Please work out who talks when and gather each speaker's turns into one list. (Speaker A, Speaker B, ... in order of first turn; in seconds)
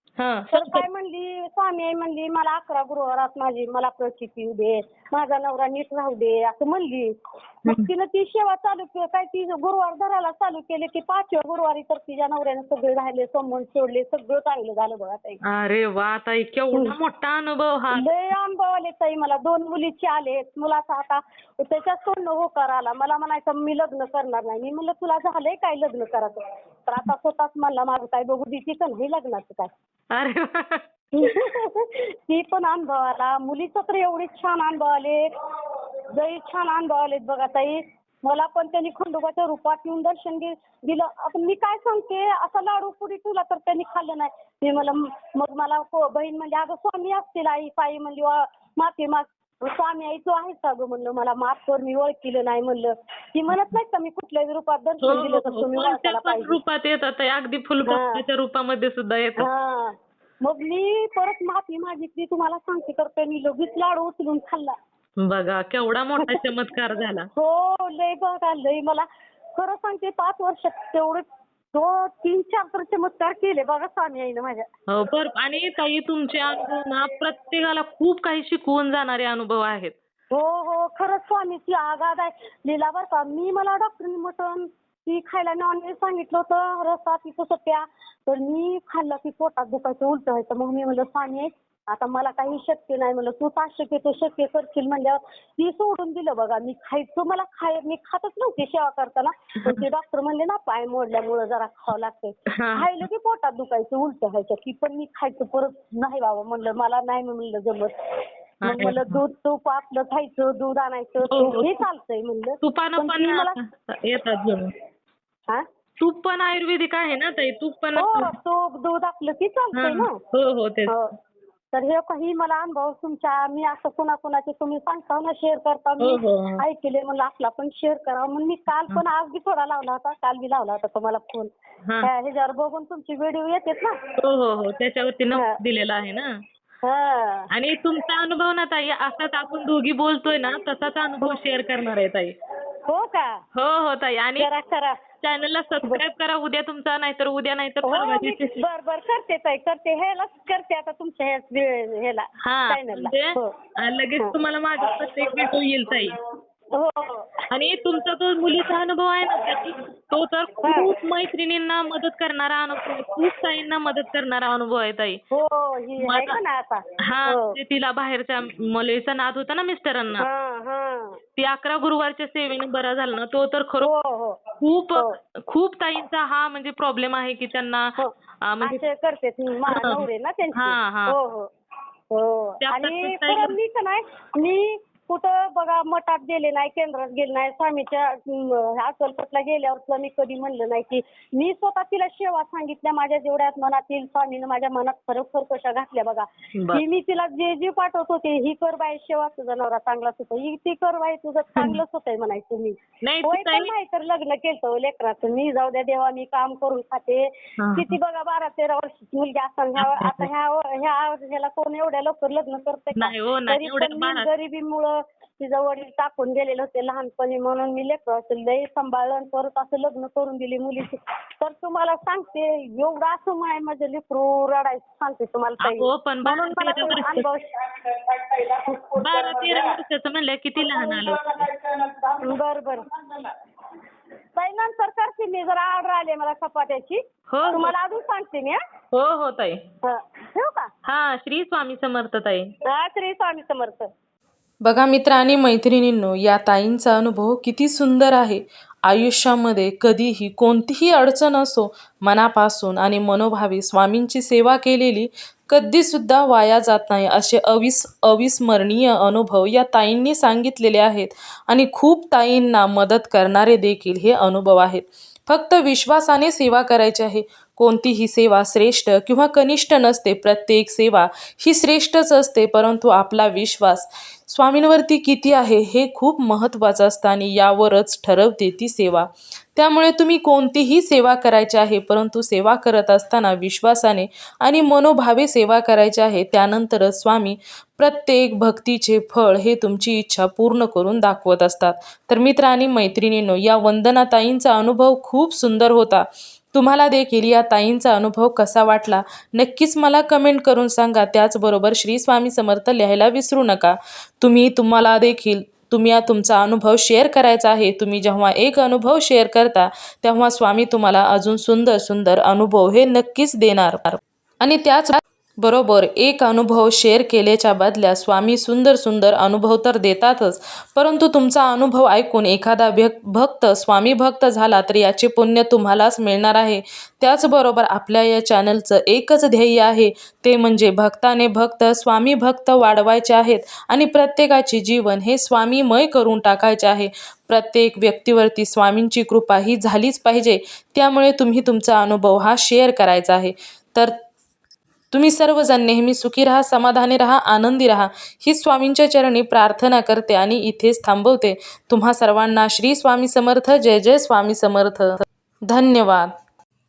Speaker A: 0.2-0.9, 15.5-18.1, 30.1-30.8, 55.0-59.5, 65.2-67.3, 74.9-80.0, 102.5-103.1, 108.7-109.2, 111.3-111.8, 112.6-114.8, 116.0-118.3, 119.8-121.0, 126.0-126.7, 134.2-136.3, 137.5-142.3, 143.6-144.5, 145.2-148.5, 152.4-156.2, 157.5-165.2, 166.0-166.4, 167.0-170.3, 171.4-173.9, 174.6-178.8, 179.7-181.2, 182.6-183.6, 203.0-203.7, 207.6-208.0, 209.8-210.3, 213.0-214.3, 225.6-227.3, 229.0-231.5, 237.3-237.7, 238.9-239.6, 240.8-242.5
Speaker B: 0.5-15.4, 17.9-29.7, 31.1-35.3, 36.1-56.6, 57.8-58.2, 59.4-64.8, 67.4-74.7, 80.3-113.6, 118.0-120.2, 120.9-121.1, 121.7-131.5, 132.0-134.0, 136.8-137.5, 142.9-143.4, 144.4-145.0, 147.8-153.6, 156.7-157.5, 160.6-160.9, 165.3-167.6, 170.2-171.2, 173.8-175.2, 178.0-181.5, 182.1-229.6, 230.6-233.3, 234.4-238.6, 239.8-240.7, 242.7-243.9
Speaker C: 244.6-344.0, 344.9-356.2